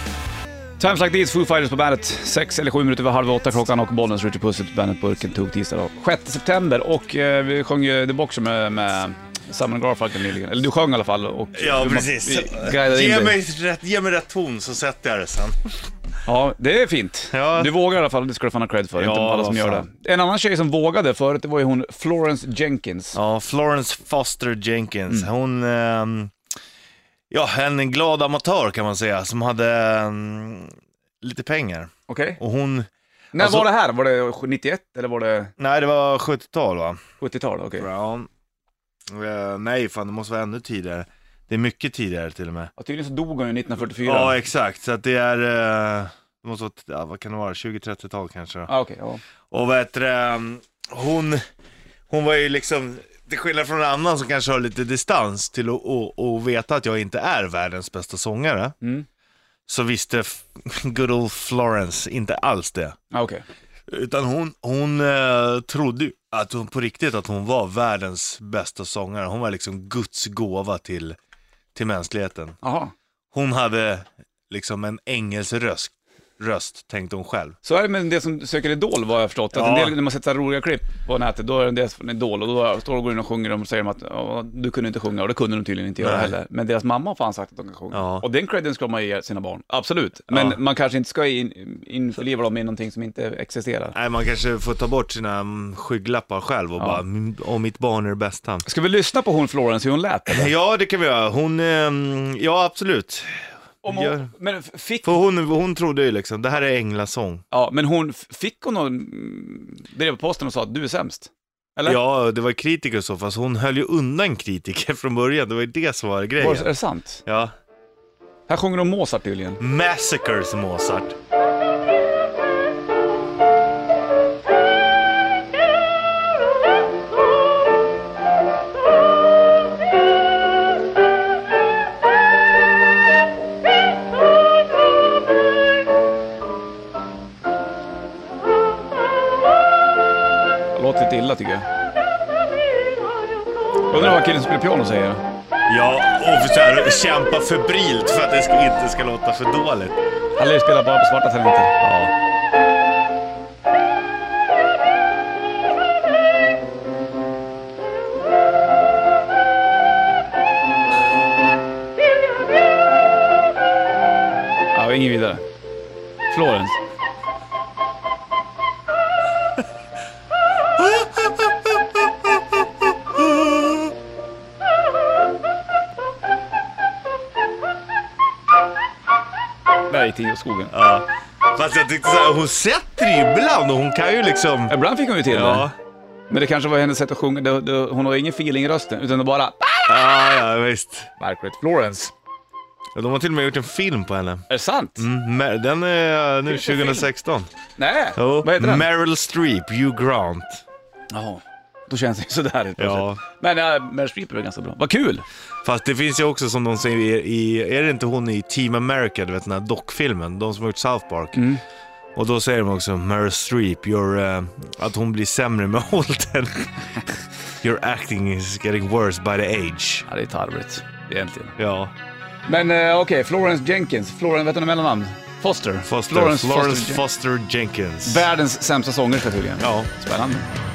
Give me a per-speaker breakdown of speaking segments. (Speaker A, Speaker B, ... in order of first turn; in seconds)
Speaker A: 0.8-13.4, 16.3-23.2, 32.1-32.4, 33.3-35.5, 37.2-37.9, 42.8-44.4, 48.7-49.2, 63.1-63.4, 72.6-72.9, 77.6-94.0, 98.7-100.5, 103.8-105.2, 107.5-112.0, 116.4-117.2, 118.5-119.6, 140.8-141.7, 143.9-145.2, 150.4-151.8, 164.7-165.4, 166.3-166.8, 179.9-180.7, 184.7-185.7, 186.3-190.2, 191.2-192.1, 194.5-195.1, 196.5-197.0, 197.8-198.9, 201.1-205.2, 211.3-211.6, 220.1-221.6, 222.5-227.0, 228.1-230.5
Speaker B: 11.5-15.6, 17.3-17.7, 19.0-19.9, 23.1-26.3, 27.3-33.7, 35.6-37.0, 37.8-38.3, 39.1-42.7, 43.9-48.7, 49.5-51.4, 52.1-58.8, 59.7-63.0, 63.9-71.2, 71.8-72.6, 73.3-77.6, 79.5-80.0, 86.0-86.3, 87.9-88.2, 90.3-90.6, 94.0-98.7, 100.3-104.3, 105.0-107.4, 111.8-116.7, 117.2-117.5, 119.6-121.2, 145.7-150.0, 151.8-152.1, 170.8-172.4, 173.0-173.9, 180.7-184.8, 185.3-185.7, 189.9-191.1, 192.9-194.4, 195.0-197.5, 198.2-200.7, 202.8-203.2, 205.6-211.5, 212.2-216.9, 217.6-220.1, 221.6-221.9, 225.9-228.3, 229.6-229.9